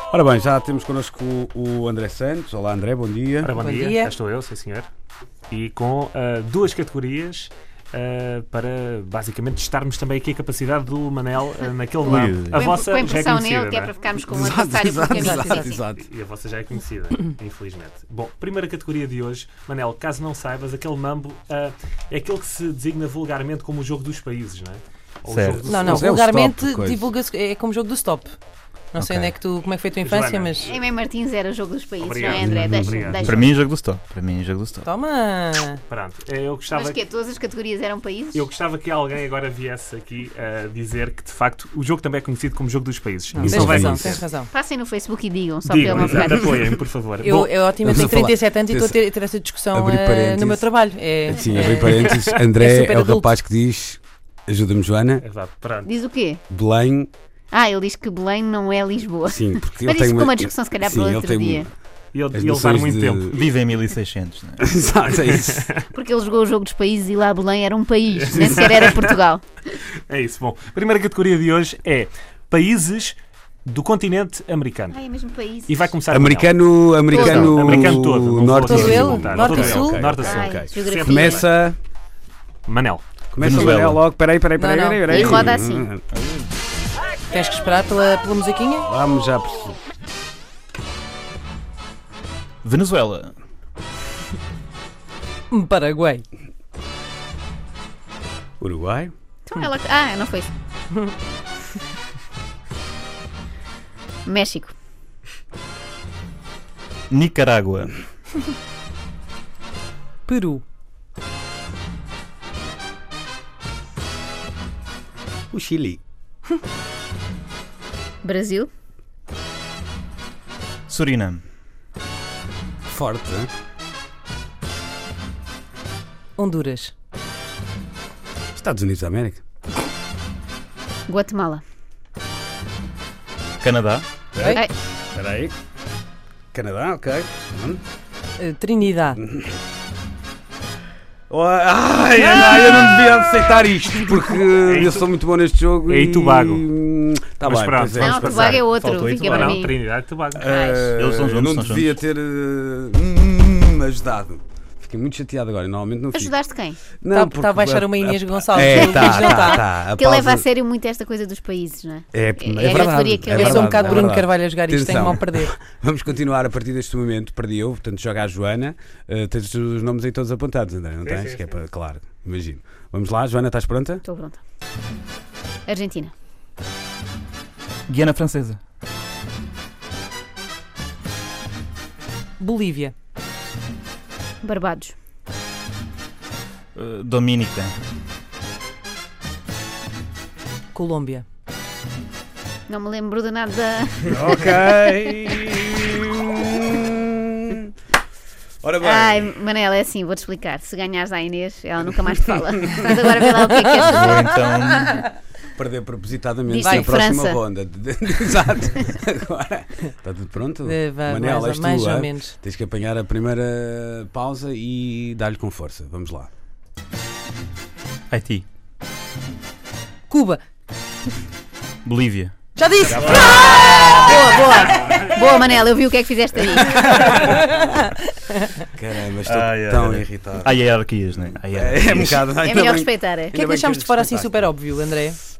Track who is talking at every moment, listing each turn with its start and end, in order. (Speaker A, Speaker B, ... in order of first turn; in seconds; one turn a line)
Speaker A: 0.1-3.5
Speaker B: 3.4-4.9
Speaker C: 3.6-4.1
Speaker B: 5.5-13.9
Speaker D: 12.0-12.7
Speaker E: 12.5-15.8
Speaker A: 14.3-16.1
Speaker C: 15.1-15.7
Speaker B: 15.9-26.1
Speaker D: 25.3-25.7
Speaker C: 25.7-28.4
Speaker A: 25.8-27.1
Speaker C: 28.9-30.7
Speaker D: 29.0-29.4
Speaker B: 30.0-30.8
Speaker E: 30.6-33.4
Speaker B: 32.0-33.3
Speaker A: 32.2-33.5
Speaker D: 33.2-34.9
Speaker C: 34.8-35.8
Speaker B: 35.9-37.0
Speaker E: 36.7-38.5
Speaker B: 38.3-44.2
Speaker C: 43.3-44.5
Speaker A: 43.4-44.2
Speaker E: 44.5-46.5
Speaker B: 45.6-47.5
Speaker C: 45.9-46.3
Speaker C: 47.2-53.4
Speaker A: 47.8-49.0
Speaker A: 49.7-50.7
Speaker A: 51.3-55.2
Speaker B: 51.8-52.2
Speaker B: 55.2-55.9
Speaker E: 55.9-56.4
Speaker A: 56.5-57.1
Speaker E: 57.5-61.7
Speaker A: 59.3-61.7
Speaker B: 62.1-63.4
Speaker A: 62.3-63.3
Speaker D: 63.3-64.6
Speaker A: 64.6-65.7
Speaker B: 65.3-65.7
Speaker E: 65.9-69.5
Speaker B: 68.2-69.0
Speaker B: 70.1-75.0
Speaker E: 74.9-75.9
Speaker B: 75.7-81.5
Speaker A: 76.1-81.8
Speaker C: 77.1-78.0
Speaker E: 77.2-77.5
Speaker C: 78.7-80.1
Speaker E: 80.2-81.4
Speaker B: 82.7-83.0
Speaker A: 83.3-86.0
Speaker D: 83.4-84.0
Speaker C: 84.6-85.5
Speaker E: 85.1-85.9
Speaker D: 86.1-86.5
Speaker C: 87.3-88.9
Speaker A: 88.8-89.8
Speaker D: 92.6-93.3
Speaker C: 95.5-96.2
Speaker A: 98.6-99.1
Speaker E: 99.5-100.5
Speaker E: 104.3-104.7
Speaker D: 107.1-107.9
Speaker C: 110.3-110.6
Speaker A: 115.5-116.0
Speaker E: 118.2-118.7
Speaker D: 120.9-121.4
Speaker A: 122.9-123.5
Speaker C: 126.4-126.9
Speaker A: 128.6-129.4
Speaker E: 131.1-131.6
Speaker D: 133.6-134.1
Speaker A: 134.3-135.5
Speaker A: 136.5-137.8
Speaker C: 138.4-139.2
Speaker A: 139.2-139.5
Speaker A: 141.3-148.6
Speaker B: 144.6-145.1
Speaker B: 145.9-146.7
Speaker B: 147.4-150.8
Speaker E: 148.0-149.8
Speaker D: 148.7-149.6
Speaker A: 150.3-156.4
Speaker E: 150.5-150.9
Speaker D: 150.9-152.0
Speaker E: 156.1-156.8
Speaker A: 156.9-160.5
Speaker C: 157.1-159.6
Speaker E: 158.6-164.1
Speaker A: 162.1-174.0
Speaker C: 162.6-165.5
Speaker B: 171.0-171.6
Speaker E: 174.1-174.4
Speaker E: 175.7-176.1
Speaker D: 177.9-178.6
Speaker C: 182.4-182.9
Speaker E: 184.4-184.9
Speaker D: 186.8-187.7
Speaker C: 190.7-191.2
Speaker E: 192.7-195.1
Speaker A: 194.1-197.7
Speaker A: 198.6-199.3
Speaker E: 198.8-204.5
Speaker D: 203.8-205.1
Speaker A: 205.6-216.3
Speaker E: 206.5-207.4
Speaker C: 206.6-207.0
Speaker C: 210.6-212.4
Speaker D: 218.1-218.4
Speaker C: 220.1-220.4
Speaker D: 221.8-222.3
Speaker C: 222.6-225.0
Speaker A: 222.9-223.3
Speaker E: 224.0-227.0
Speaker B: 226.8-227.1
Speaker C: 226.9-227.8
Speaker A: 228.7-230.6
Speaker D: 229.2-232.3
Speaker A: 231.5-234.5
Speaker E: 232.3-233.4
Speaker C: 233.3-235.2